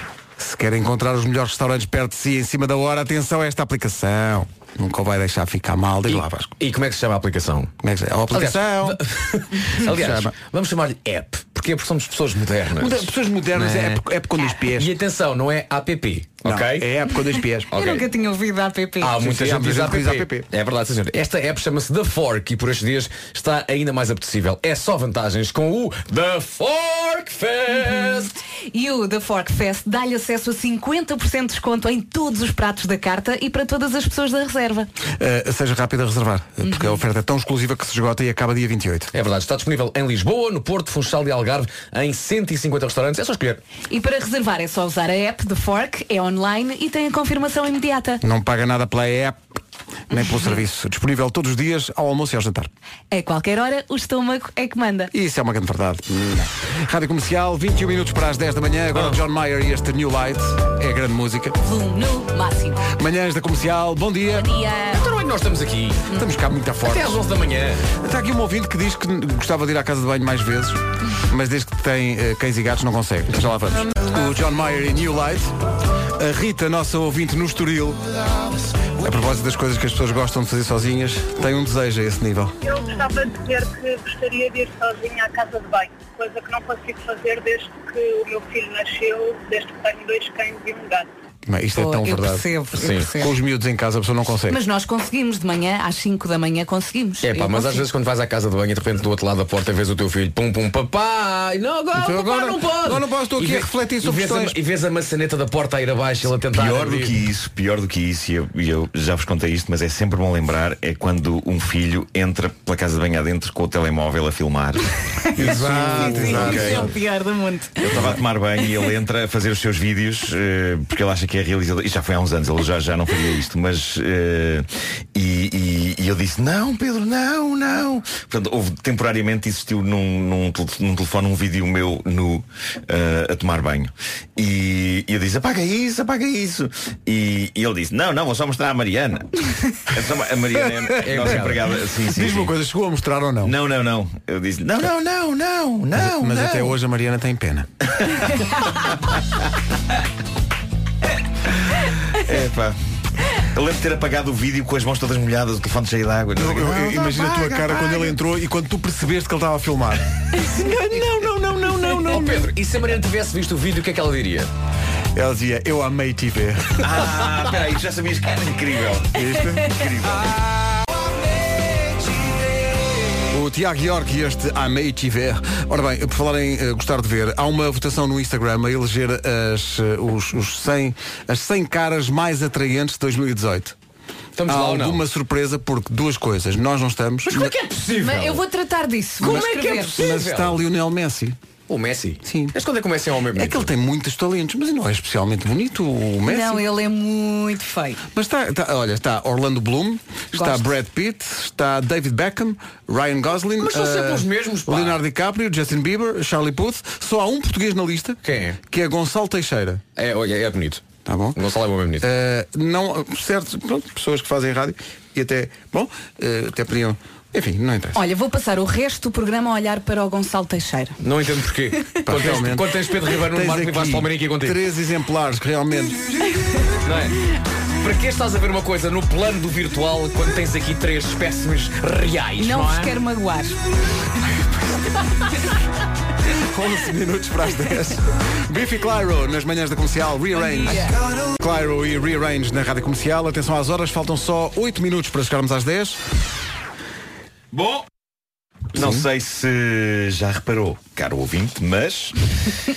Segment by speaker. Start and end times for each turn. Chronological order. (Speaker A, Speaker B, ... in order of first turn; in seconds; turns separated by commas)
Speaker A: 0.4-6.5, Speaker B: 6.1-7.7, Speaker A: 7.8-9.0, Speaker B: 8.3-14.0, Speaker A: 9.8-10.3, Speaker A: 12.8-14.9, Speaker B: 14.6-16.9, Speaker A: 16.4-17.7, Speaker B: 17.7-18.1, Speaker C: 17.7-19.1, Speaker B: 19.0-28.3, Speaker A: 19.1-20.5, Speaker C: 27.9-34.9, Speaker A: 35.2-39.1, Speaker C: 36.6-37.0, Speaker B: 39.1-43.6, Speaker C: 43.9-48.2, Speaker A: 48.2-49.4, Speaker A: 50.1-52.7, Speaker C: 53.1-55.1, Speaker A: 55.1-61.6, Speaker C: 61.6-62.9, Speaker A: 62.9-64.5, Speaker C: 64.3-65.0, Speaker B: 64.9-66.1, Speaker A: 66.1-67.2, Speaker B: 66.8-67.8, Speaker A: 68.0-75.5, Speaker A: 76.1-78.0, Speaker A: 79.0-82.5, Speaker D: 82.6-91.1, Speaker A: 91.5-92.5, Speaker C: 91.8-93.3, Speaker B: 92.8-93.1, Speaker A: 93.1-94.6, Speaker C: 94.5-97.8, Speaker B: 97.2-107.2, Speaker A: 101.9-104.6, Speaker E: 106.5-116.9, Speaker A: 115.3-116.9, Speaker C: 115.4-118.0, Speaker E: 117.8-142.5, Speaker A: 140.5-143.5, Speaker B: 141.0-141.6, Speaker E: 143.4-146.7, Speaker A: 145.9-147.7, Speaker E: 148.0-148.3, Speaker E: 152.1-152.8, Speaker E: 153.3-158.1, Speaker A: 156.3-162.5, Speaker B: 160.6-164.5, Speaker A: 165.1-167.0, Speaker E: 166.8-170.3, Speaker A: 169.1-170.3, Speaker A: 173.3-183.8, Speaker B: 184.3-185.0, Speaker A: 184.4-187.6, Speaker B: 187.3-188.4, Speaker C: 188.0-190.0, Speaker B: 189.2-190.6, Speaker A: 189.2-191.4, Speaker B: 191.7-193.7, Speaker A: 192.2-192.6, Speaker A: 193.3-196.6, Speaker C: 196.2-198.0, Speaker A: 198.1-209.8, Speaker C: 200.3-200.7, Speaker B: 203.6-205.0, Speaker B: 208.2-208.6, Speaker B: 210.0-212.1, Speaker A: 211.0-211.4, Speaker A: 212.0-218.0, Speaker C: 217.9-221.0, Speaker B: 221.0-224.6, Speaker A: 222.0-227.1, Speaker B: 226.8-227.2, Speaker B: 227.8-232.9, Speaker C: 232.4-233.6, Speaker A: 236.2-246.0, Speaker C: 240.6-240.9, Speaker E: 247.5-247.8, Speaker A: 248.7-249.1, Speaker E: 248.7-252.2